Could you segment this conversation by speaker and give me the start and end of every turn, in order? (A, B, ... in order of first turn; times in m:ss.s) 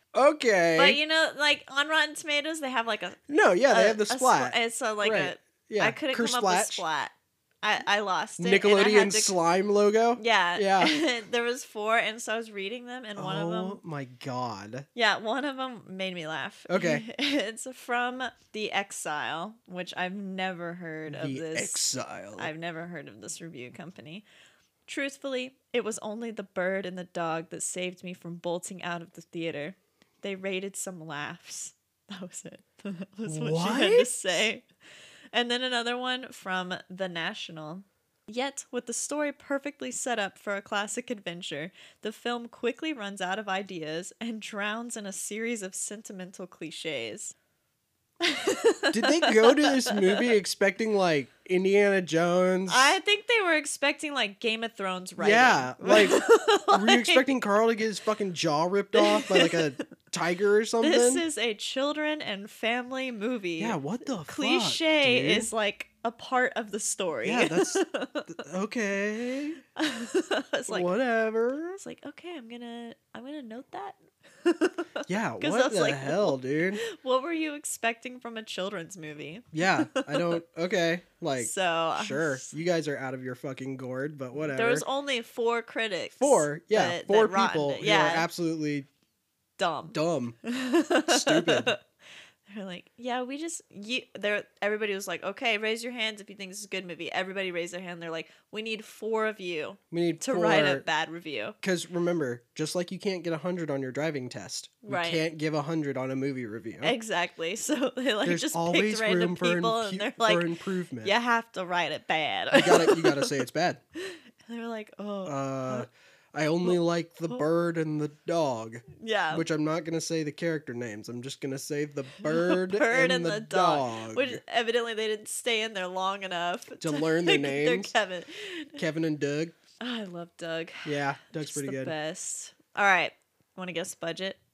0:00.1-0:01.0 A
0:00.8-0:09.3 B
0:03.3-0:06.8 A
0:08.4-0:10.9 A
0:10.2-0:13.8 B
0:13.2-0:14.8 A
0:14.9-0:24.2 B
0:16.7-0:17.0 A
0:21.1-0:22.5 A
0:24.9-0:34.6 B
0:33.2-0:34.5 A
0:35.3-0:47.3 B
0:48.2-0:50.3 B
0:48.9-0:53.0 A
0:52.7-0:57.3 B
0:55.2-1:01.2 A
0:58.9-0:59.8 B
1:00.8-1:08.3 B
1:03.6-1:05.5 A
1:07.2-1:09.6 A
1:09.8-1:10.9 B
1:10.7-1:11.8 A
1:11.8-1:20.4 B
1:15.1-1:16.8 A
1:19.5-1:24.8 A
1:21.4-1:22.5 B
1:24.4-1:28.3 B
1:26.1-1:28.9 A
1:29.6-1:31.8 B
1:29.9-1:30.4 A
1:31.1-1:31.7 A
1:32.5-1:41.6 B
1:39.9-1:40.8 A
1:41.6-1:46.9 A
1:44.8-1:45.2 B
1:46.8-1:53.3 B
1:48.2-1:51.1 A
1:52.5-1:53.8 A
1:54.0-1:55.8 B
1:55.2-2:04.4 A
1:56.6-1:57.4 B
1:58.9-1:59.4 B
2:02.2-2:08.8 B
2:06.8-2:07.9 A
2:08.8-2:09.5 A
2:09.8-2:14.4 B
2:10.8-2:11.9 A